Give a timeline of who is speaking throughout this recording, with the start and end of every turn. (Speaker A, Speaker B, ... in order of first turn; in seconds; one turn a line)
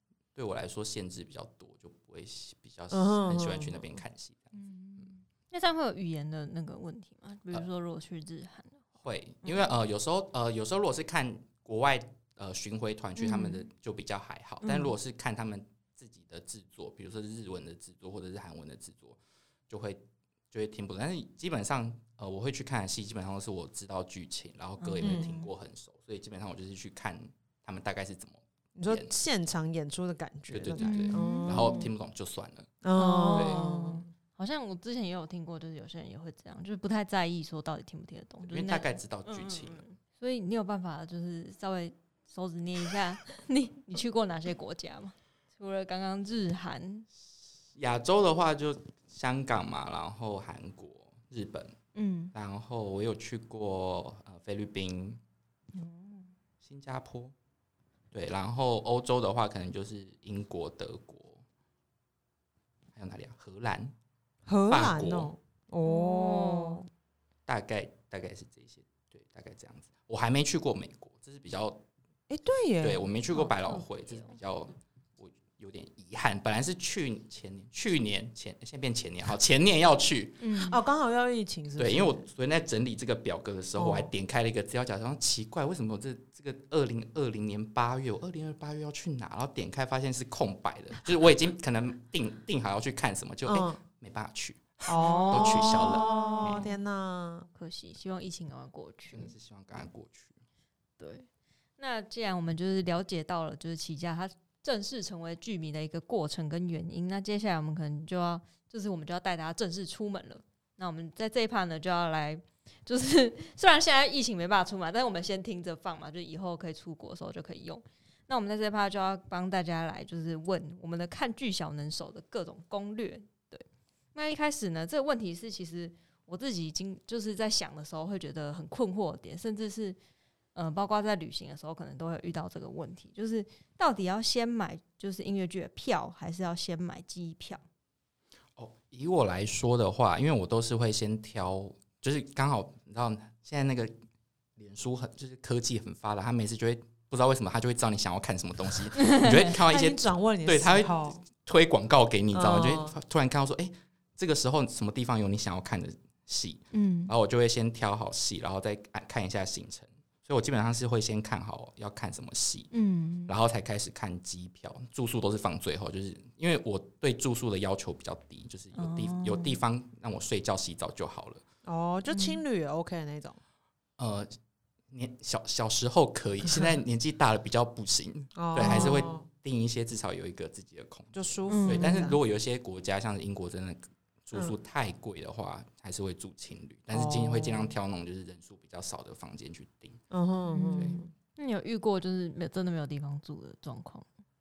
Speaker A: 0.3-4.5
Speaker B: 2.9-3.8
Speaker C: 4.5-8.8
Speaker A: 9.0-29.1
Speaker C: 9.4-9.7
Speaker C: 13.2-13.7
Speaker C: 14.6-14.9
Speaker C: 24.8-25.5
Speaker B: 25.0-25.3
Speaker B: 28.8-31.8
Speaker A: 30.5-32.7
Speaker C: 30.8-31.9
Speaker B: 32.8-34.1
Speaker C: 33.0-47.1
Speaker A: 33.3-33.6
Speaker A: 38.4-39.8
Speaker A: 47.7-51.8
Speaker C: 52.0-52.3
Speaker A: 52.3-55.2
Speaker C: 55.7-56.3
Speaker A: 56.6-57.4
Speaker A: 58.1-61.4
Speaker A: 62.9-63.9
Speaker B: 64.5-66.9
Speaker A: 64.7-65.3
Speaker C: 65.8-66.8
Speaker A: 67.5-71.8
Speaker B: 72.3-73.0
Speaker A: 72.8-80.5
Speaker C: 73.3-74.4
Speaker C: 80.4-80.8
Speaker B: 80.6-82.2
Speaker A: 81.8-96.7
Speaker B: 83.8-84.1
Speaker B: 93.5-93.8
Speaker B: 94.9-97.5
Speaker C: 95.0-96.8
Speaker C: 97.5-99.3
Speaker A: 99.1-100.4
Speaker C: 101.0-101.3
Speaker C: 101.8-130.0
Speaker C: 130.6-137.6
Speaker A: 138.6-143.9
Speaker A: 144.6-162.7
Speaker B: 149.5-151.2
Speaker B: 152.3-153.0
Speaker C: 156.7-157.1
Speaker C: 162.7-163.3
Speaker A: 163.3-171.4
Speaker C: 168.8-169.6
Speaker B: 171.7-173.4
Speaker C: 172.1-172.4
Speaker A: 174.0-174.3
Speaker A: 174.9-190.0
Speaker B: 178.4-179.3
Speaker C: 178.6-179.1
Speaker B: 181.1-182.2
Speaker C: 181.5-182.1
Speaker B: 186.9-187.7
Speaker B: 190.1-191.1
Speaker C: 190.5-194.1